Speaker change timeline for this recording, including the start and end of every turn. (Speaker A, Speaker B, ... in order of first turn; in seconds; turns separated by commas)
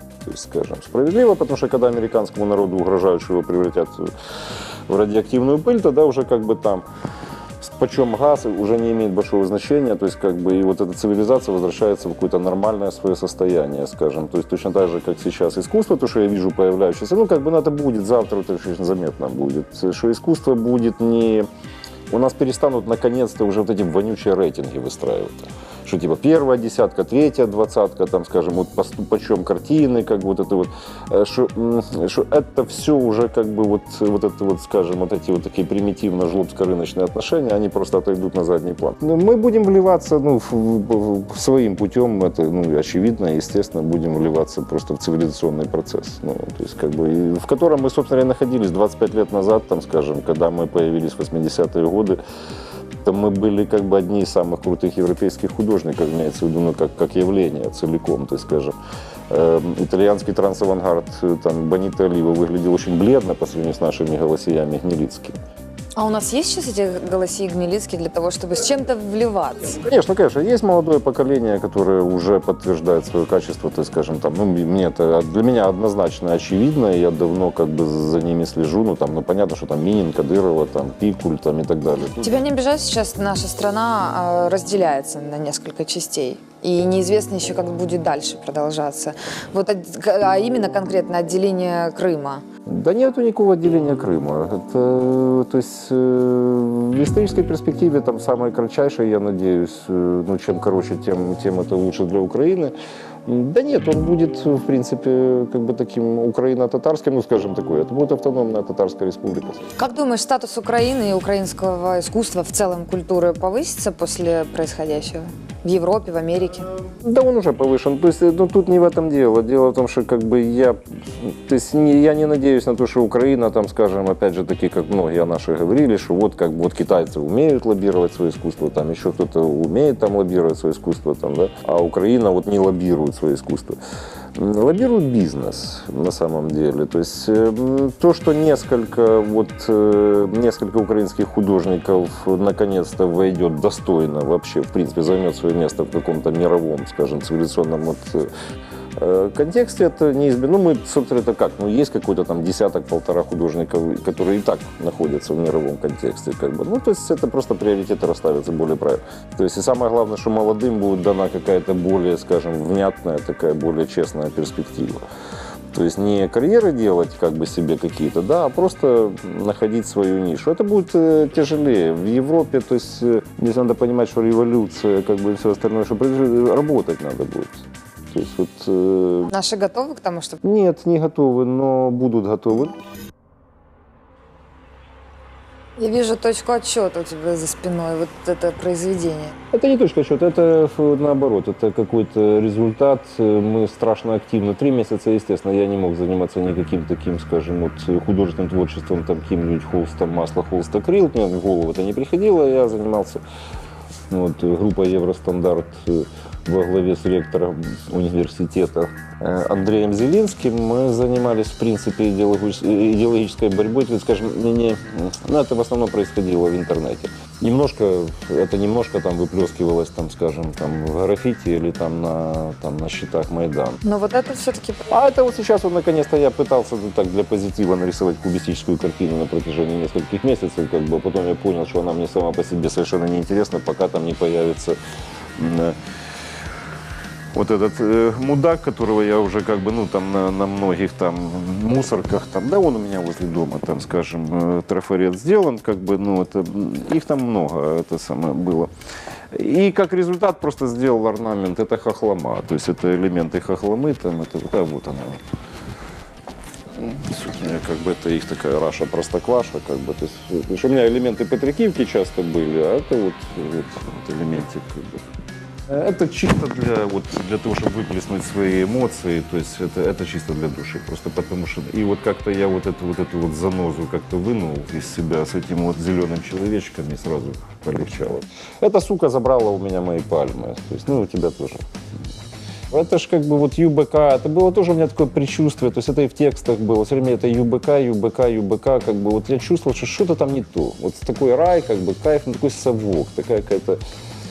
Speaker A: 0.2-4.1, Speaker A: 4.9-6.8, Speaker A: 7.6-21.5, Speaker A: 22.1-52.2, Speaker A: 53.0-58.7, Speaker A: 59.3-65.4, Speaker B: 66.0-69.8, Speaker A: 69.8-82.4, Speaker B: 82.2-92.4, Speaker A: 92.7-102.7, Speaker A: 103.3-109.7, Speaker B: 109.8-116.7, Speaker A: 117.0-133.8, Speaker A: 134.3-148.3, Speaker A: 149.0-165.1, Speaker A: 165.7-179.3, Speaker B: 179.3-180.4, Speaker A: 180.4-182.8, Speaker B: 185.8-189.3, Speaker A: 189.5-203.2, Speaker A: 204.1-223.8, Speaker B: 223.8-224.9, Speaker A: 224.9-234.8, Speaker A: 235.4-235.8, Speaker A: 237.3-248.7, Speaker A: 249.3-255.2, Speaker A: 256.8-265.1, Speaker A: 265.7-281.7, Speaker A: 282.7-293.8